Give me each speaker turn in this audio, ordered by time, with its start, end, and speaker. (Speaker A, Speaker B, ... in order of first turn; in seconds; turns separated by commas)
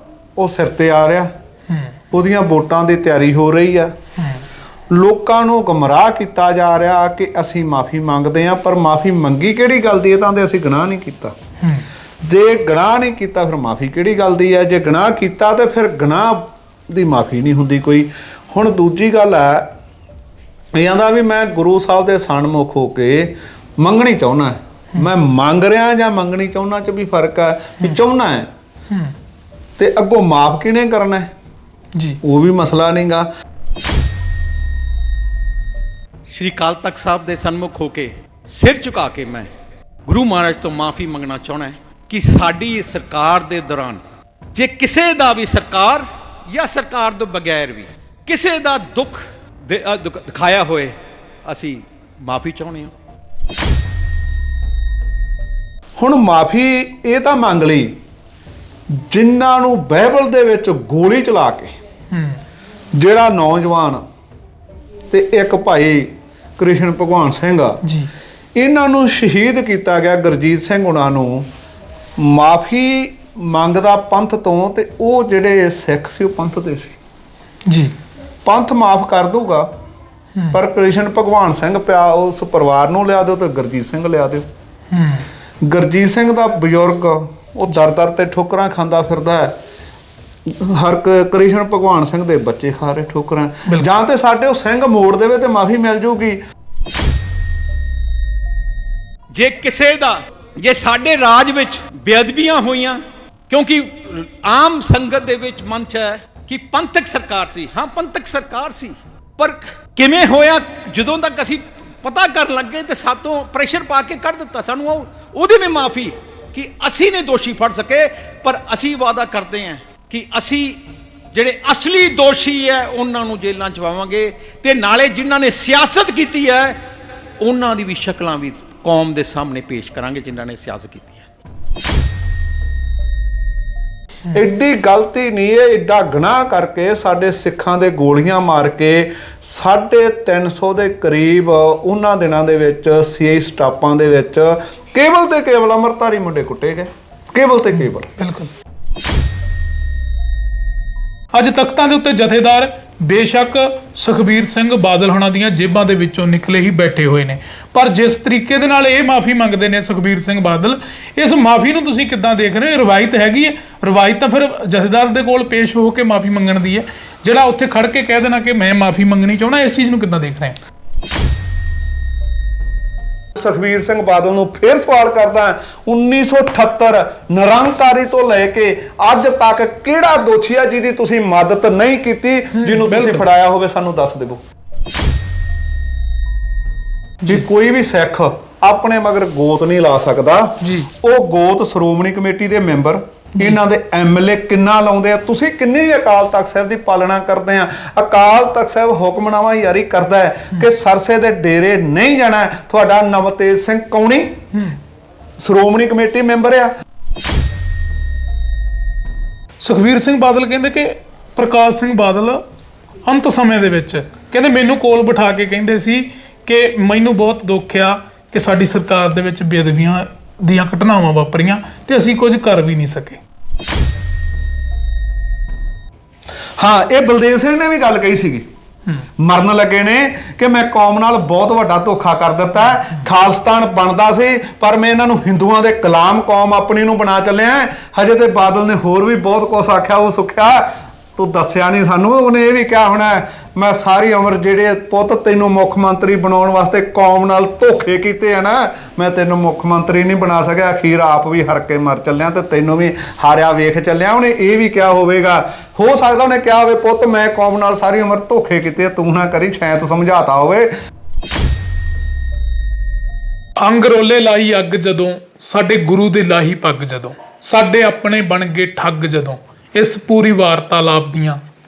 Speaker A: 0.4-1.3, Speaker A: 2.1-4.0, Speaker A: 4.9-11.4, Speaker A: 12.2-19.7, Speaker A: 20.7-28.5, Speaker A: 29.8-31.3, Speaker A: 32.2-33.3, Speaker B: 36.3-39.5, Speaker B: 40.0-44.0, Speaker B: 44.5-52.9, Speaker A: 56.0-58.0, Speaker A: 58.9-61.8, Speaker C: 62.1-62.4, Speaker A: 63.0-64.0, Speaker A: 65.1-67.8, Speaker C: 67.8-68.1, Speaker A: 68.6-71.5, Speaker A: 72.2-77.0, Speaker C: 77.7-78.0, Speaker A: 78.5-79.7, Speaker A: 80.5-84.5, Speaker C: 84.9-85.3, Speaker A: 85.6-89.6, Speaker A: 90.5-96.4, Speaker B: 99.3-126.8, Speaker B: 127.4-131.2, Speaker A: 134.3-148.1, Speaker C: 148.2-148.5, Speaker C: 151.3-170.6, Speaker A: 173.4-184.4, Speaker C: 182.6-183.2, Speaker A: 187.3-204.4, Speaker C: 190.6-190.9, Speaker A: 205.4-206.7, Speaker C: 209.6-212.4, Speaker C: 213.1-223.2, Speaker A: 226.6-228.5, Speaker A: 229.2-260.7, Speaker C: 263.6-271.4